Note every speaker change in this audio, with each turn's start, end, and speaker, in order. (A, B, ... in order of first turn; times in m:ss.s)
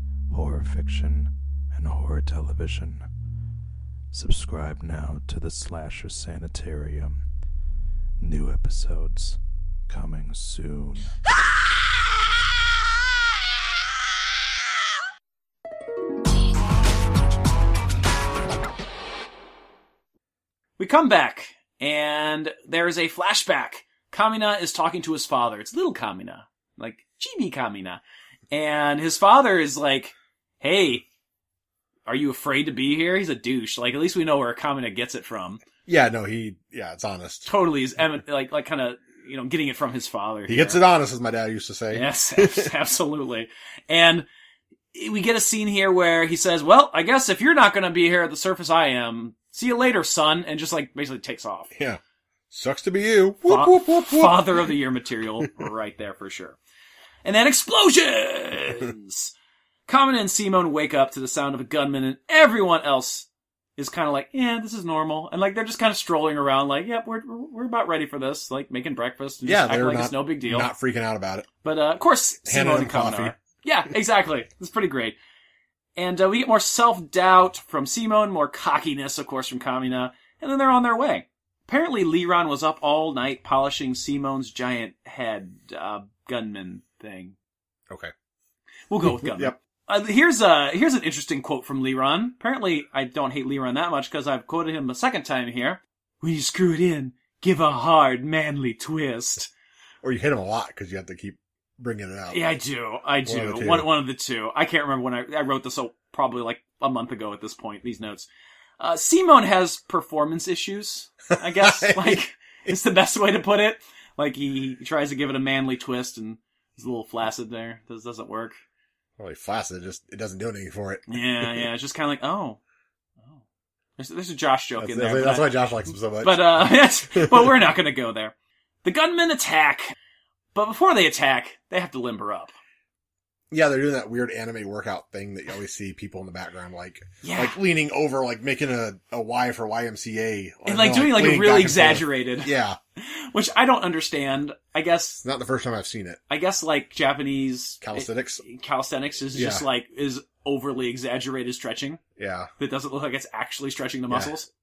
0:00.3-0:03.0 A
0:04.1-0:07.2 A
0:08.2-0:11.2 A
0:20.8-0:31.0 B
0:32.0-0:35.6 B
0:35.8-0:37.5 C
0:37.4-0:40.8 B
0:40.5-0:42.7 C
0:41.9-0:44.2 B
0:44.9-0:51.7 B
0:51.7-0:52.0 C
0:52.5-0:54.6 C
0:53.4-0:56.6 B
0:57.2-0:59.3 B
0:59.9-1:10.7 B
1:09.4-1:11.5 C
1:11.6-1:15.2 B
1:12.4-1:13.3 C
1:16.0-1:27.3 B
1:28.9-1:39.5 B
1:29.0-1:29.5 C
1:40.0-1:42.4 C
1:42.3-1:48.3 B
1:43.2-1:43.9 C
1:48.8-1:58.6 B
1:51.5-1:52.7 C
1:59.2-2:01.7 C
2:01.1-2:02.6 B
2:04.0-2:09.9 B
2:04.8-2:07.5 C
2:10.5-2:12.5 B
2:13.5-2:22.8 C
2:17.2-2:17.6 B
2:20.6-2:25.2 B
2:25.2-2:26.2 C
2:26.3-2:32.0 B
2:27.8-2:28.4 C
2:29.3-2:29.6 C
2:32.2-2:32.5 C
2:32.6-2:34.5 B